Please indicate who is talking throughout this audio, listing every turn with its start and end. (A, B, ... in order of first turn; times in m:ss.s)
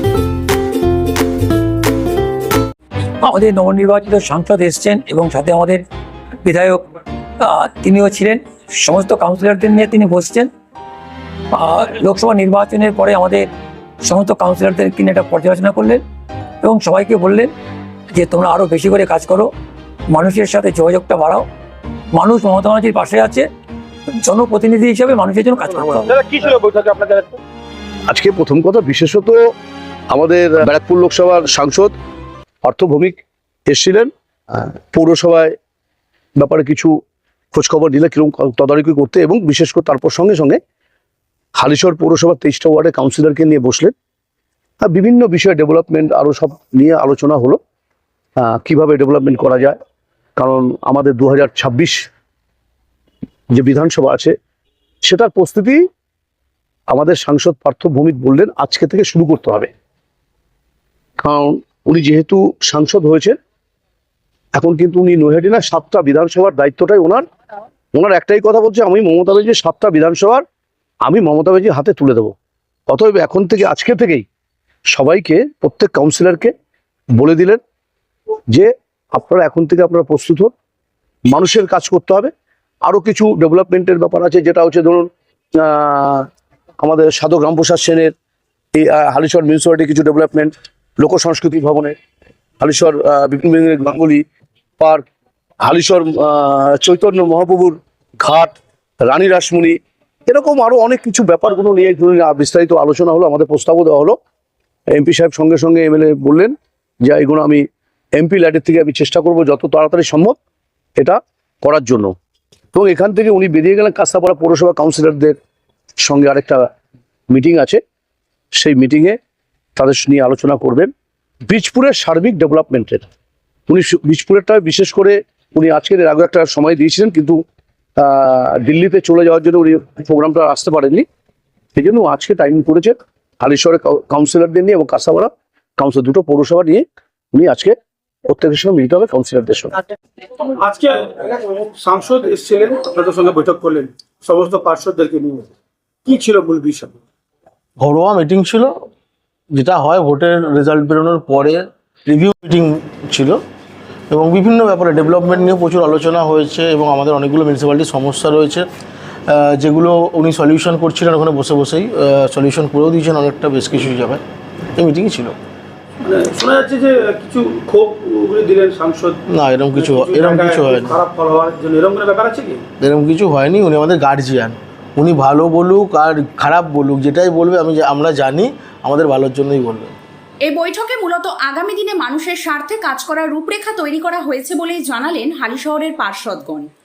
0:03.2-0:05.8 A
0:06.4-0:06.8 A
0:07.4-0:10.5 A
0:11.5-0:13.5 A
0:14.1-0:16.0 A
0:16.6-0:17.5 A
0:18.1-0:19.5 A
0:20.1-0:21.5 A
0:22.1-0:23.5 A
0:24.2-0:26.1 A
0:26.0-0:27.4 B
0:28.1-0:29.5 C
0:30.1-0:31.9 C
0:32.6-0:35.6 C
0:36.4-0:37.0 C
0:37.5-0:40.6 C
0:41.6-0:43.9 C
0:44.8-0:47.6 C
0:48.4-0:49.8 C
0:50.4-0:52.0 C
0:53.5-0:54.4 C
0:55.0-0:55.8 C
0:56.9-0:59.7 C
1:01.2-1:03.4 C
1:04.6-1:07.2 C
1:07.9-1:10.4 C
1:11.0-1:12.3 C
1:12.9-1:14.2 C
1:14.9-1:16.5 C
1:17.2-1:17.6 C
1:18.5-1:20.5 C
1:21.3-1:22.3 C
1:22.8-1:25.1 C
1:25.6-1:26.3 C
1:26.8-1:28.1 C
1:28.8-1:32.0 C
1:32.6-1:34.2 C
1:35.6-1:44.2 C
1:44.9-1:47.6 C
1:48.2-1:50.4 C
1:51.0-1:52.1 C
1:52.7-1:55.4 C
1:56.0-1:56.7 C
1:57.3-1:57.8 C
1:58.6-1:59.2 C
1:59.8-2:00.9 C
2:01.5-2:03.0 C
2:03.7-2:07.4 C
2:08.0-2:11.0 C
2:11.8-2:19.8 C
2:20.6-2:25.5 B
2:26.1-2:27.0 B
2:27.8-2:28.7 D
2:29.5-2:33.4 D
2:34.1-2:38.7 D
2:39.3-2:44.2 D
2:44.8-2:45.4 D
2:46.0-2:49.2 B
2:49.3-2:51.0 D
2:49.7-2:52.6 B
2:52.8-3:00.0 D
3:00.4-3:06.7 E